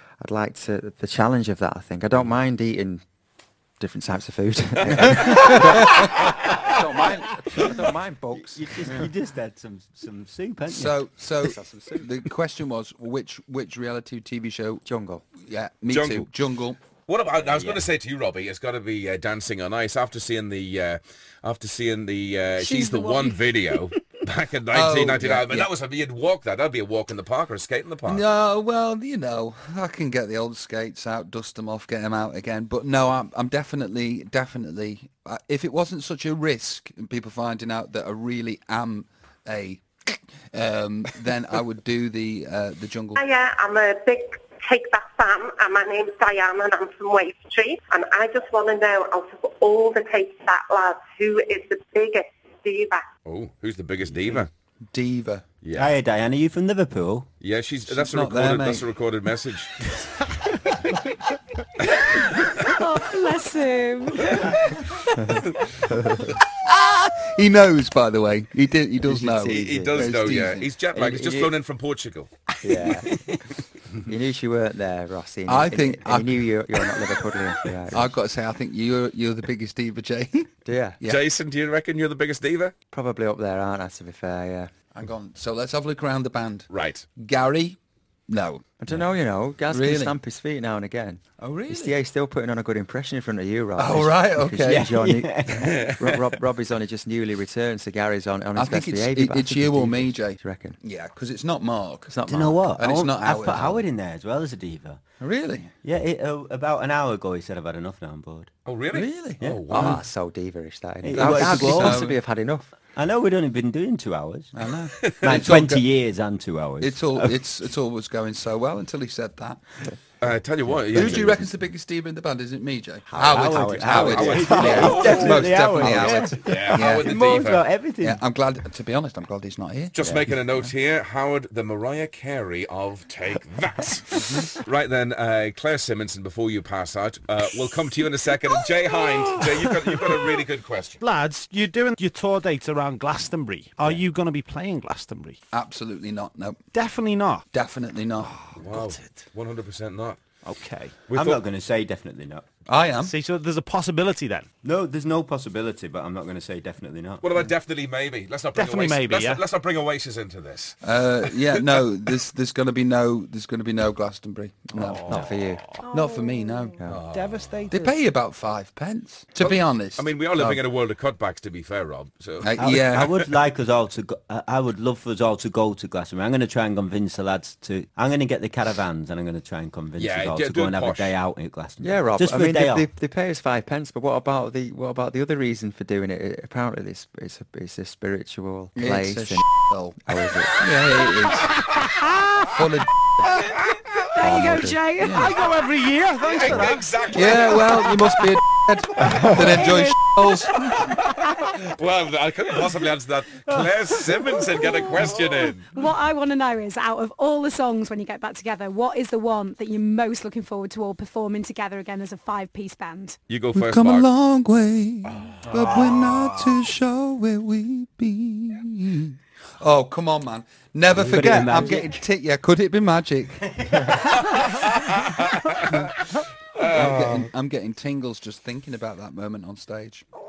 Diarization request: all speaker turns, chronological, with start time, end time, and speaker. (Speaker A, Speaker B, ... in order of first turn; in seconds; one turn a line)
Speaker A: 0.2-3.0
Speaker A: 3.8-9.1
Speaker B: 4.9-5.5
Speaker C: 8.3-10.9
Speaker D: 10.7-14.8
Speaker A: 11.4-12.1
Speaker A: 14.8-15.2
Speaker D: 15.4-16.8
Speaker B: 15.9-16.3
Speaker B: 17.1-28.2
Speaker C: 17.4-17.8
Speaker E: 22.6-23.5
Speaker D: 24.7-25.7
Speaker D: 28.1-43.2
Speaker F: 43.1-53.1
Speaker B: 53.2-54.5
Speaker D: 54.9-55.4
Speaker B: 55.6-55.9
Speaker C: 55.8-57.3
Speaker B: 57.4-59.8
Speaker D: 57.9-58.9
Speaker B: 62.0-62.5
Speaker E: 62.7-65.4
Speaker D: 66.5-70.7
Speaker A: 69.0-70.2
Speaker B: 69.6-72.3
Speaker A: 70.9-71.5
Speaker A: 72.6-73.2
Speaker A: 74.0-78.1
Speaker D: 75.5-76.8
Speaker D: 77.9-80.5
Speaker A: 80.7-81.0
Speaker B: 81.0-82.7
Speaker A: 82.9-84.7
Speaker D: 84.9-87.8
Speaker B: 86.7-87.1
Speaker D: 88.3-88.6
Speaker A: 88.8-100.8
Speaker D: 89.7-90.1
Speaker D: 91.4-92.0
Speaker D: 93.8-94.9
Speaker C: 94.6-95.8
Speaker B: 95.5-96.3
Speaker D: 98.5-102.1
Speaker A: 102.1-102.6
Speaker C: 102.3-105.0
Speaker D: 102.8-103.8
Speaker D: 105.2-105.7
Speaker C: 105.8-108.5
Speaker B: 108.7-110.0
Speaker D: 108.9-110.0
Speaker A: 109.7-112.7
Speaker C: 111.0-112.0
Speaker D: 111.1-112.2
Speaker C: 112.9-114.5
Speaker D: 114.5-115.8
Speaker C: 115.2-117.3
Speaker D: 116.8-119.6
Speaker B: 120.2-121.5
Speaker D: 120.9-127.2
Speaker A: 123.1-124.9
Speaker C: 123.3-128.2
Speaker B: 123.8-127.6
Speaker D: 128.0-129.9
Speaker B: 129.9-141.0
Speaker D: 134.2-134.4
Speaker G: 141.0-145.4
Speaker D: 145.5-146.6
Speaker G: 146.7-147.4
Speaker D: 147.5-148.3
Speaker G: 148.3-149.2
Speaker B: 148.6-150.2
Speaker G: 150.5-150.9
Speaker B: 151.1-151.4
Speaker C: 151.1-152.4
Speaker D: 152.7-153.2
Speaker G: 153.1-154.5
Speaker C: 154.6-157.2
Speaker B: 157.2-160.8
Speaker G: 158.6-159.4
Speaker D: 160.8-165.0
Speaker G: 164.8-165.2
Speaker A: 165.1-165.6
Speaker E: 165.8-166.9
Speaker D: 165.9-166.8
Speaker B: 166.9-167.6
Speaker G: 167.1-167.9
Speaker D: 167.7-170.6
Speaker B: 169.4-173.3
Speaker D: 172.4-173.0
Speaker C: 172.6-182.9
Speaker B: 179.9-181.1
Speaker A: 181.8-189.4
Speaker D: 188.8-190.0
Speaker A: 190.0-190.6
Speaker D: 190.6-191.6
Speaker D: 192.5-192.9
Speaker E: 194.1-195.2
Speaker A: 194.2-194.8
Speaker D: 195.0-195.4
Speaker G: 195.3-196.8
Speaker B: 196.2-198.0
Speaker D: 197.1-200.7
Speaker E: 199.3-200.1
Speaker B: 200.6-205.7
Speaker E: 204.6-205.1
Speaker E: 205.7-213.2
Speaker B: 213.3-214.1
Speaker D: 213.5-223.8
Speaker B: 215.0-216.6
Speaker C: 220.9-221.9
Speaker B: 224.3-227.3
Speaker D: 226.6-230.0